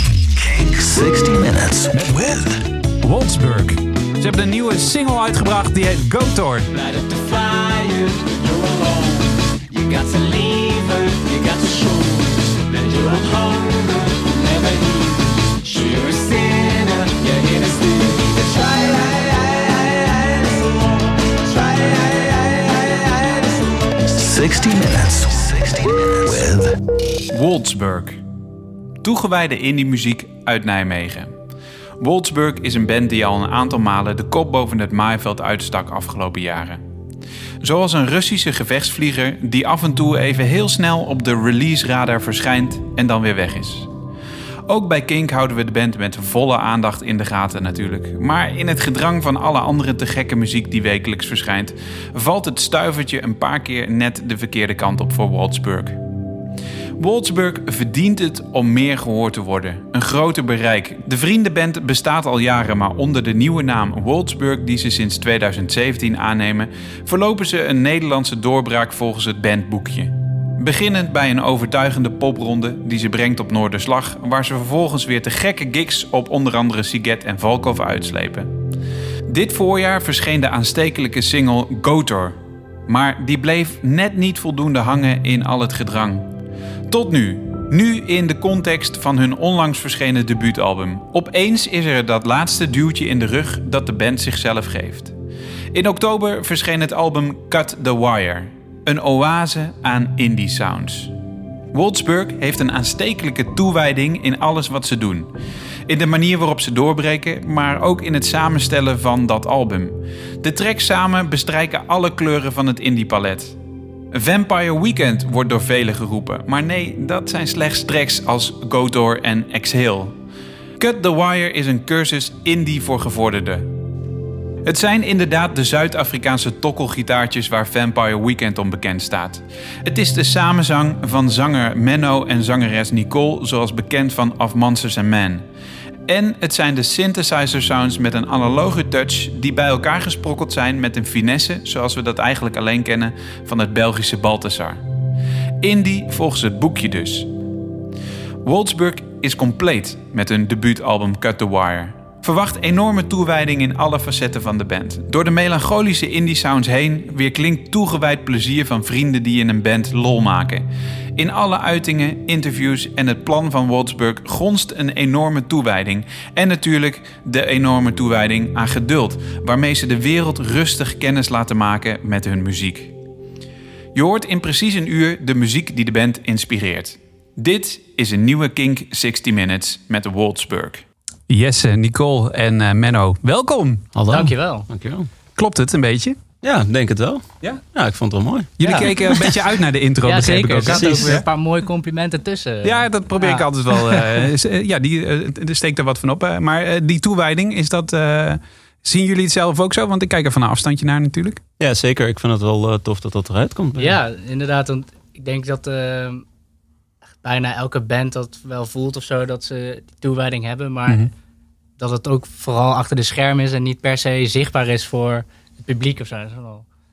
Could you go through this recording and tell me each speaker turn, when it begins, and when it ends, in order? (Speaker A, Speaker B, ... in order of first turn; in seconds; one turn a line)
Speaker A: 0.7-2.1
Speaker B: 1.1-1.4
Speaker C: 1.9-2.5
Speaker C: 3.0-6.7
Speaker B: 6.7-20.8
Speaker B: 21.4-24.8
Speaker A: 24.3-26.7
Speaker C: 27.3-28.2
Speaker C: 29.0-31.3
Speaker C: 32.0-36.8
Speaker C: 37.6-43.9
Speaker C: 44.7-56.0
Speaker C: 57.0-78.5
Speaker C: 79.3-86.2
Speaker C: 86.9-95.1
Speaker C: 95.7-101.1
Speaker C: 101.7-105.3
Speaker C: 105.9-113.5
Speaker C: 114.1-120.1
Speaker C: 120.8-123.7
Speaker C: 124.6-135.4
Speaker C: 136.1-144.8
Speaker C: 145.6-147.3
Speaker C: 148.4-160.6
Speaker C: 161.2-172.9
Speaker C: 173.9-183.9
Speaker D: 183.9-185.1
Speaker E: 184.1-184.7
Speaker C: 185.3-186.2
Speaker D: 186.4-188.8
Speaker C: 188.6-191.2
Speaker E: 188.6-189.1
Speaker E: 190.0-194.0
Speaker D: 190.7-191.2
Speaker C: 192.6-201.4
Speaker D: 201.6-204.0
Speaker E: 203.8-206.2
Speaker E: 207.2-211.1
Speaker E: 211.8-216.7